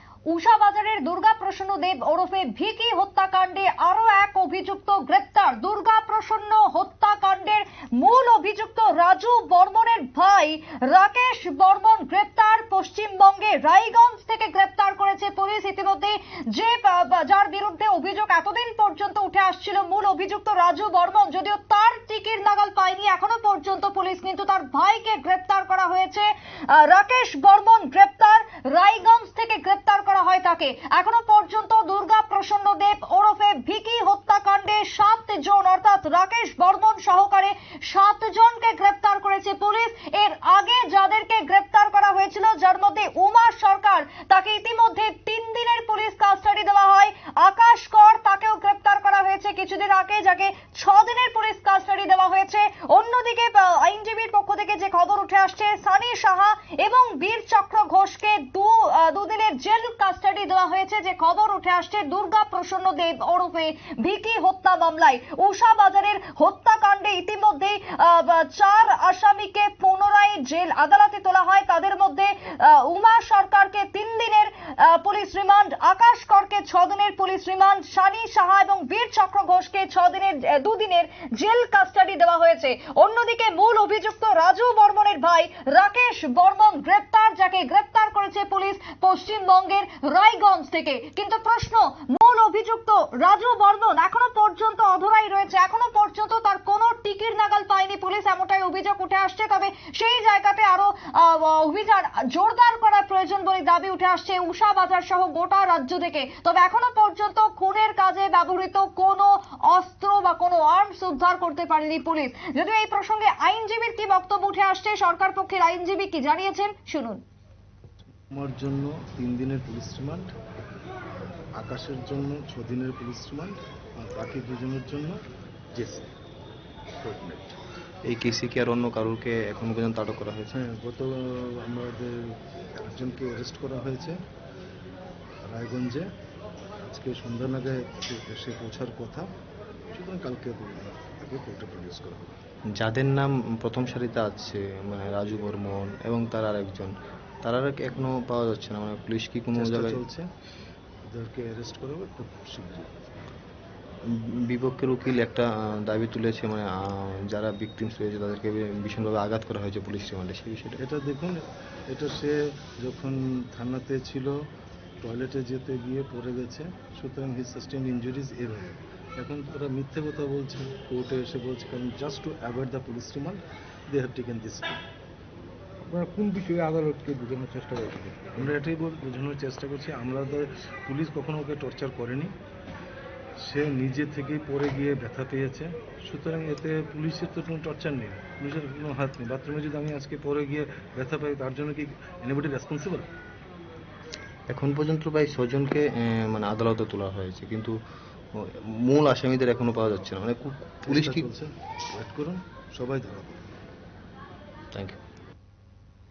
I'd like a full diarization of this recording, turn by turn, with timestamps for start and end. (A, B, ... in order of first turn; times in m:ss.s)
0:00.3-1:57.2 A
1:58.3-2:00.3 B
2:01.1-2:05.2 B
2:05.7-2:06.1 B
2:07.0-2:07.6 B
2:08.1-2:10.6 C
2:10.5-2:14.2 B
2:15.5-2:16.1 B
2:16.8-2:19.3 B
2:19.9-2:22.3 B
2:22.8-2:30.0 C
2:29.5-2:30.3 B
2:31.1-2:32.9 B
2:34.1-2:40.8 C
2:40.8-2:44.3 B
2:45.0-2:54.8 B
2:55.8-2:58.5 D
2:58.4-3:02.3 B
3:03.4-3:13.1 B
3:14.5-3:17.7 C
3:18.3-3:21.3 C
3:20.9-3:23.4 B
3:24.7-3:25.0 C